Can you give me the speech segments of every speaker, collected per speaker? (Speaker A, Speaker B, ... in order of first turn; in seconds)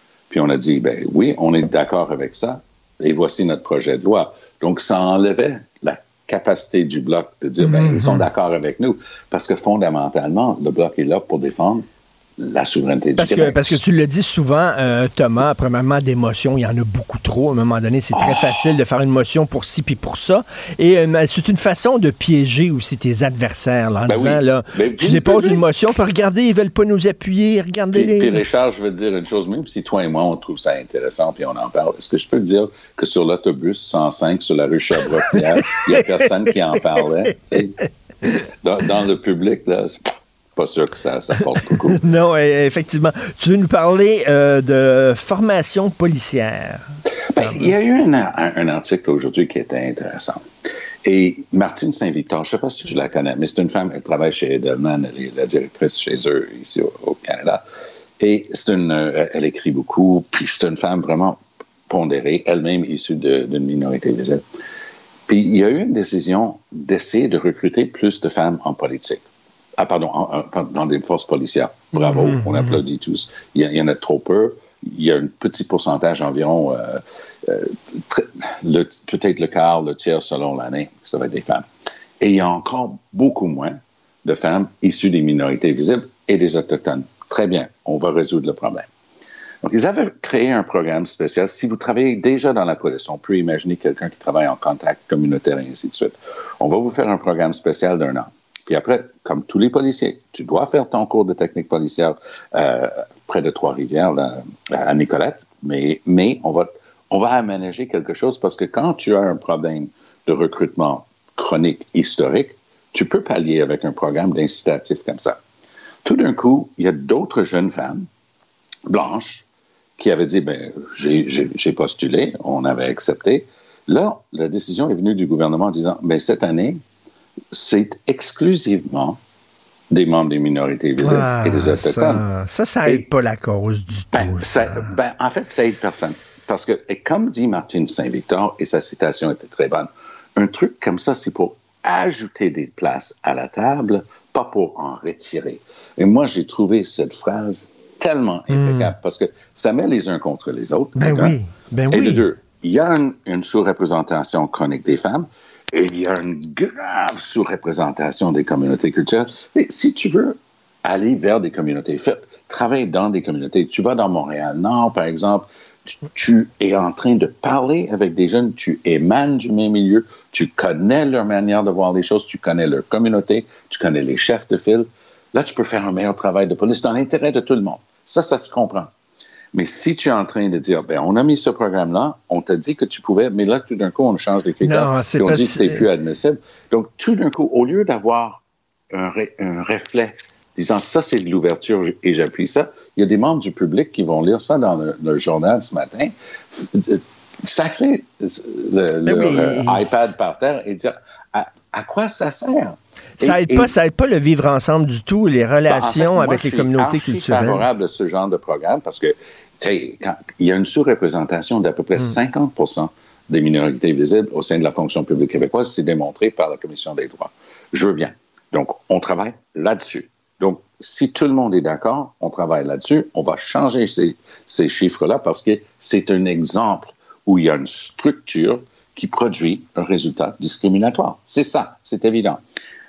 Speaker A: 0.3-11.9, 12.4-13.8, 18.1-18.5, 24.1-25.6, 27.9-37.8, 38.6-42.0, 47.3-50.5, 51.0-57.6, 58.2-64.4, 65.3-69.2, 69.8-81.7, 82.2-88.9, 89.6-115.4, 116.0-118.1, 118.9-119.5, 120.0-126.8, 127.5-129.2, 129.9-132.2, 134.1-151.4, 151.9-178.9, 179.5-203.7, 205.7-232.4
Speaker B: 7.6-8.3, 13.2-28.4, 35.2-37.6, 41.9-46.8, 47.4-47.7, 71.9-72.8, 131.0-134.9, 148.5-148.9, 151.0-152.2, 184.6-185.9, 199.1-199.9, 203.2-207.7